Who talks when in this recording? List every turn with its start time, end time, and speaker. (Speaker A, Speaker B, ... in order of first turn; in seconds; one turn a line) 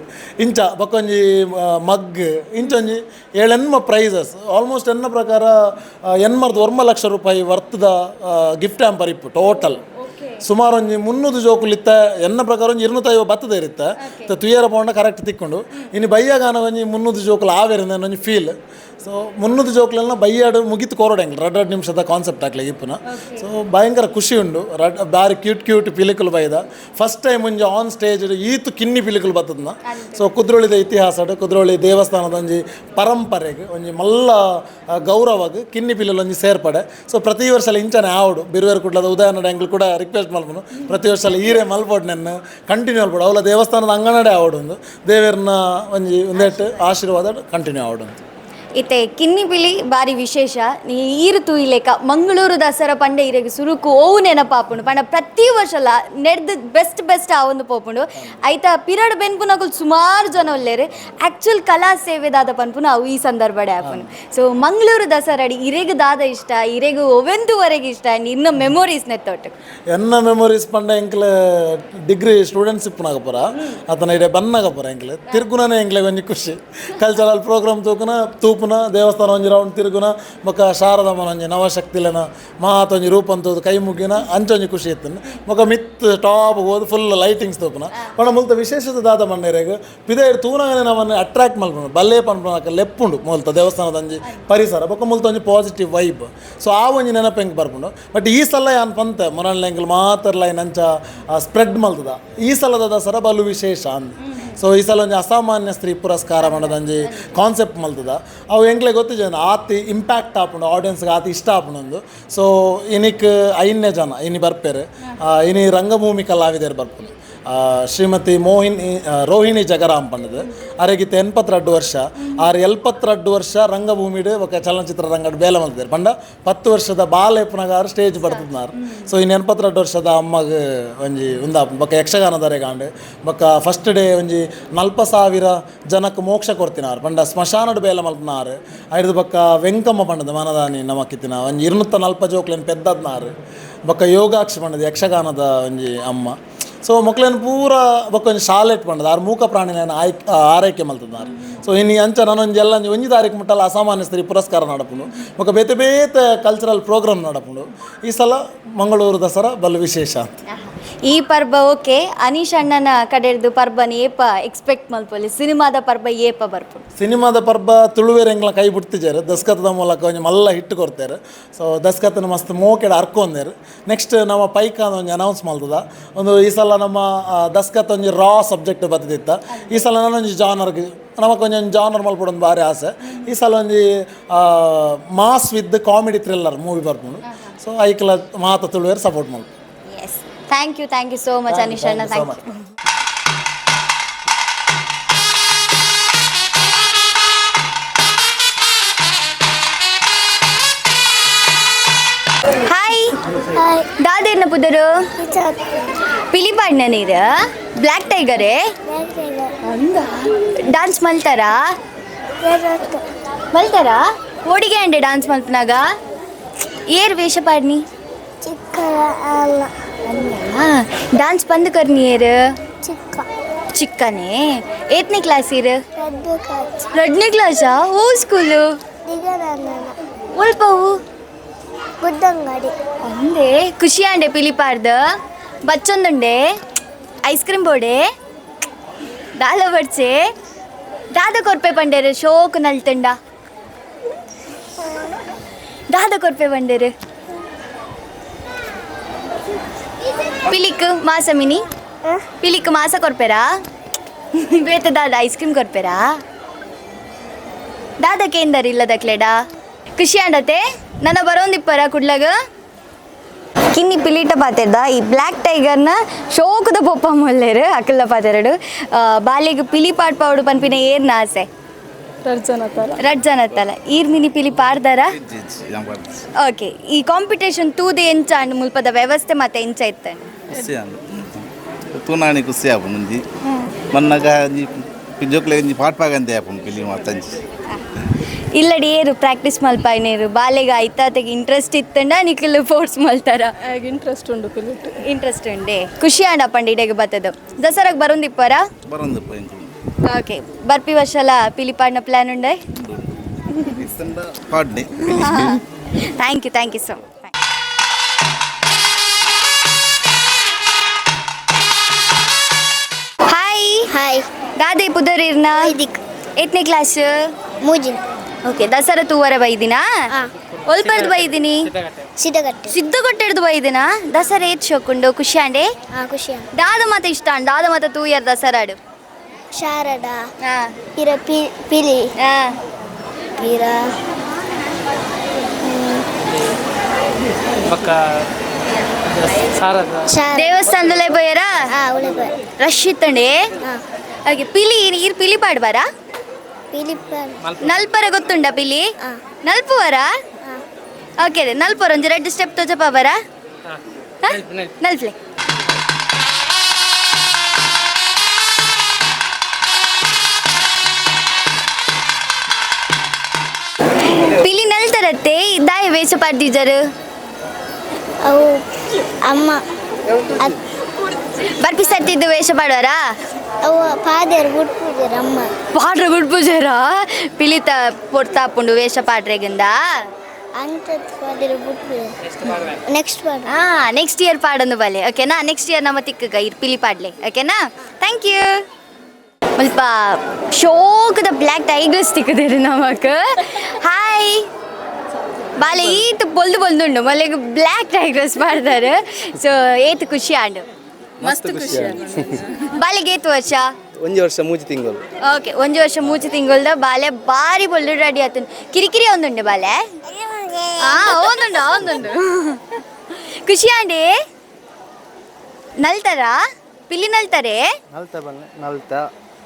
Speaker A: 0.4-9.8
Speaker A: 10.4-48.1
Speaker B: 48.8-69.5
Speaker A: 69.9-143.3
Speaker A: 143.9-160.3
Speaker B: 160.5-166.8
Speaker A: 167.0-189.5
Speaker B: 189.9-192.6
Speaker A: 191.5-192.4
Speaker B: 202.7-203.1
Speaker C: 203.6-203.9
Speaker B: 204.0-205.1
Speaker C: 205.2-205.9
Speaker B: 206.3-208.7
Speaker C: 208.9-209.5
Speaker B: 209.6-211.6
Speaker C: 212.4-213.0
Speaker B: 213.5-215.8
Speaker B: 216.9-217.8
Speaker C: 218.4-219.7
Speaker B: 220.1-222.4
Speaker C: 222.8-223.3
Speaker B: 223.7-225.8
Speaker C: 226.0-226.9
Speaker B: 226.9-228.7
Speaker C: 229.0-229.9
Speaker B: 230.3-231.0
Speaker C: 232.0-232.7
Speaker B: 233.0-235.0
Speaker B: 235.7-236.4
Speaker B: 237.2-238.0
Speaker B: 239.4-240.2
Speaker B: 241.1-243.2
Speaker B: 245.9-246.9
Speaker B: 250.4-251.6
Speaker B: 252.4-253.5
Speaker B: 254.3-256.1
Speaker B: 258.0-259.4
Speaker B: 260.0-262.3
Speaker B: 263.7-271.5
Speaker D: 272.2-272.9
Speaker B: 273.0-275.1
Speaker E: 275.1-276.2
Speaker B: 276.4-280.3
Speaker E: 280.5-283.2
Speaker E: 283.9-287.4
Speaker B: 288.5-293.5
Speaker D: 293.6-294.9
Speaker B: 295.0-298.6
Speaker E: 298.9-299.7
Speaker B: 300.1-302.6
Speaker E: 302.8-303.1
Speaker E: 303.7-305.6
Speaker B: 305.1-305.6
Speaker B: 306.2-307.3
Speaker B: 313.3-313.9
Speaker C: 313.9-314.2
Speaker B: 314.6-315.8
Speaker C: 315.6-316.0
Speaker B: 316.4-317.3
Speaker C: 317.6-318.0
Speaker B: 318.4-319.8
Speaker B: 320.6-321.7
Speaker C: 322.2-322.7
Speaker B: 322.7-325.7
Speaker C: 325.9-326.4
Speaker B: 326.5-328.8
Speaker C: 329.5-330.2
Speaker B: 330.4-330.7
Speaker C: 330.9-332.1
Speaker B: 332.2-332.5
Speaker C: 333.4-333.9
Speaker C: 335.6-336.1
Speaker C: 340.1-340.6
Speaker B: 340.3-341.6
Speaker C: 341.7-342.3
Speaker B: 342.6-343.4
Speaker B: 344.3-345.9
Speaker C: 346.7-347.4
Speaker B: 347.6-348.9
Speaker B: 349.4-350.1
Speaker B: 351.2-353.2
Speaker B: 354.2-355.1
Speaker B: 364.2-366.8
Speaker C: 368.2-368.6
Speaker C: 369.2-369.6
Speaker B: 371.5-373.1
Speaker C: 373.6-375.5
Speaker B: 375.7-379.8
Speaker C: 380.6-383.5
Speaker B: 383.5-388.6
Speaker B: 389.6-394.5
Speaker B: 395.6-400.6
Speaker F: 401.2-402.4
Speaker B: 401.2-403.7
Speaker D: 401.9-402.3
Speaker F: 404.0-405.0
Speaker B: 405.2-409.8
Speaker C: 410.1-411.4
Speaker B: 410.8-412.8
Speaker B: 413.4-414.1
Speaker B: 415.8-417.7
Speaker F: 417.9-419.0